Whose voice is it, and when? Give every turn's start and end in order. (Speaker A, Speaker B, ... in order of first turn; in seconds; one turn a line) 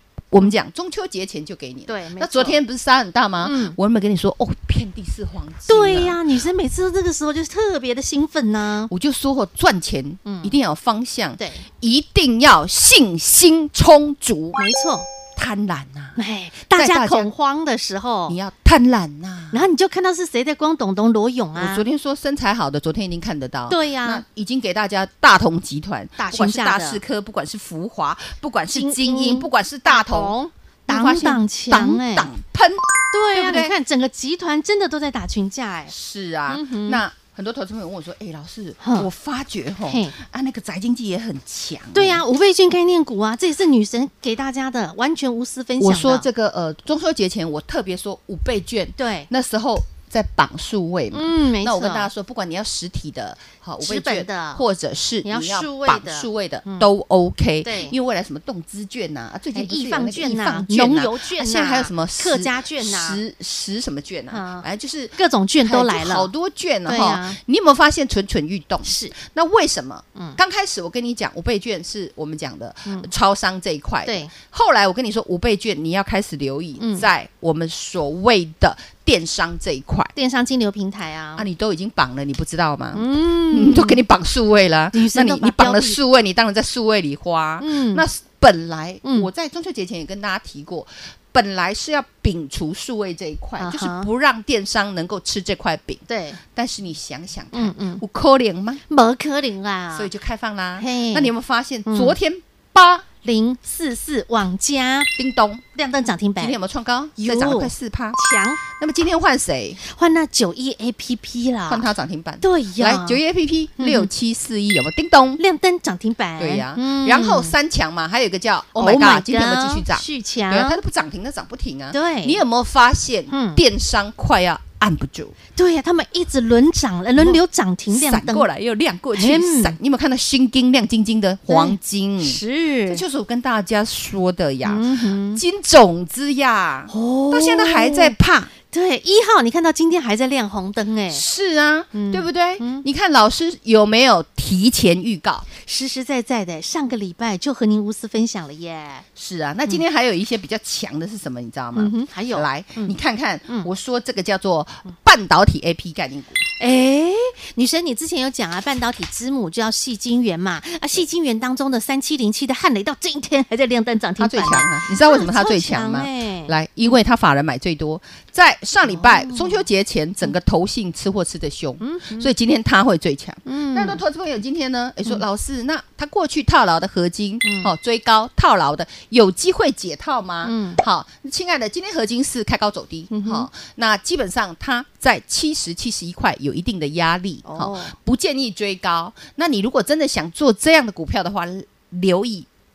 Speaker A: 0.3-6.2
Speaker B: 1.9-2.6
Speaker B: 3.4-3.8
Speaker B: 5.7-8.9
Speaker A: 8.9-14.6
Speaker B: 10.2-10.5
Speaker B: 11.4-11.7
Speaker B: 14.6-15.1
Speaker A: 15.3-17.3
Speaker B: 16.1-18.4
Speaker A: 18.3-19.7
Speaker B: 19.5-21.9
Speaker A: 21.5-30.4
Speaker B: 23.7-24.2
Speaker B: 26.2-27.0
Speaker B: 28.7-32.3
Speaker A: 30.9-33.7
Speaker B: 33.1-35.9
Speaker A: 35.9-42.2
Speaker B: 36.5-37.0
Speaker B: 38.8-39.1
Speaker B: 39.9-40.1
Speaker B: 41.9-46.2
Speaker A: 45.8-80.1
Speaker B: 49.0-49.3
Speaker B: 51.1-52.1
Speaker B: 53.8-54.6
Speaker B: 55.2-56.9
Speaker B: 57.6-57.9
Speaker B: 59.5-63.2
Speaker B: 64.3-64.7
Speaker B: 65.2-66.3
Speaker B: 66.8-67.4
Speaker B: 68.8-69.1
Speaker B: 72.8-73.1
Speaker B: 74.0-74.3
Speaker B: 76.8-77.1
Speaker B: 80.1-81.5
Speaker A: 81.3-98.8
Speaker B: 82.9-84.0
Speaker B: 84.9-86.0
Speaker B: 87.6-88.0
Speaker B: 89.0-89.3
Speaker B: 93.6-94.1
Speaker B: 96.1-96.4
Speaker B: 97.5-98.0
Speaker B: 98.9-100.1
Speaker A: 99.9-103.0
Speaker B: 100.8-101.3
Speaker B: 101.8-102.2
Speaker B: 103.2-105.1
Speaker A: 105.2-105.6
Speaker B: 105.7-106.5
Speaker A: 106.4-109.8
Speaker B: 107.2-108.6
Speaker B: 109.8-111.9
Speaker A: 111.7-115.4
Speaker B: 112.4-113.2
Speaker B: 113.8-114.1
Speaker B: 115.4-117.5
Speaker A: 116.4-125.3
Speaker B: 118.7-120.8
Speaker B: 121.9-122.4
Speaker B: 123.3-123.6
Speaker B: 125.5-128.5
Speaker A: 127.2-138.5
Speaker B: 129.1-129.8
Speaker B: 131.5-133.0
Speaker B: 134.6-135.4
Speaker B: 136.9-138.1
Speaker B: 138.7-141.2
Speaker A: 141.1-145.5
Speaker B: 141.9-142.8
Speaker B: 145.6-149.0
Speaker A: 149.2-156.4
Speaker B: 151.7-152.9
Speaker B: 156.6-166.5
Speaker A: 164.2-192.5
Speaker B: 168.8-169.6
Speaker B: 171.8-172.3
Speaker B: 173.4-174.0
Speaker B: 177.4-177.7
Speaker B: 180.4-180.8
Speaker B: 183.1-183.5
Speaker B: 187.4-187.9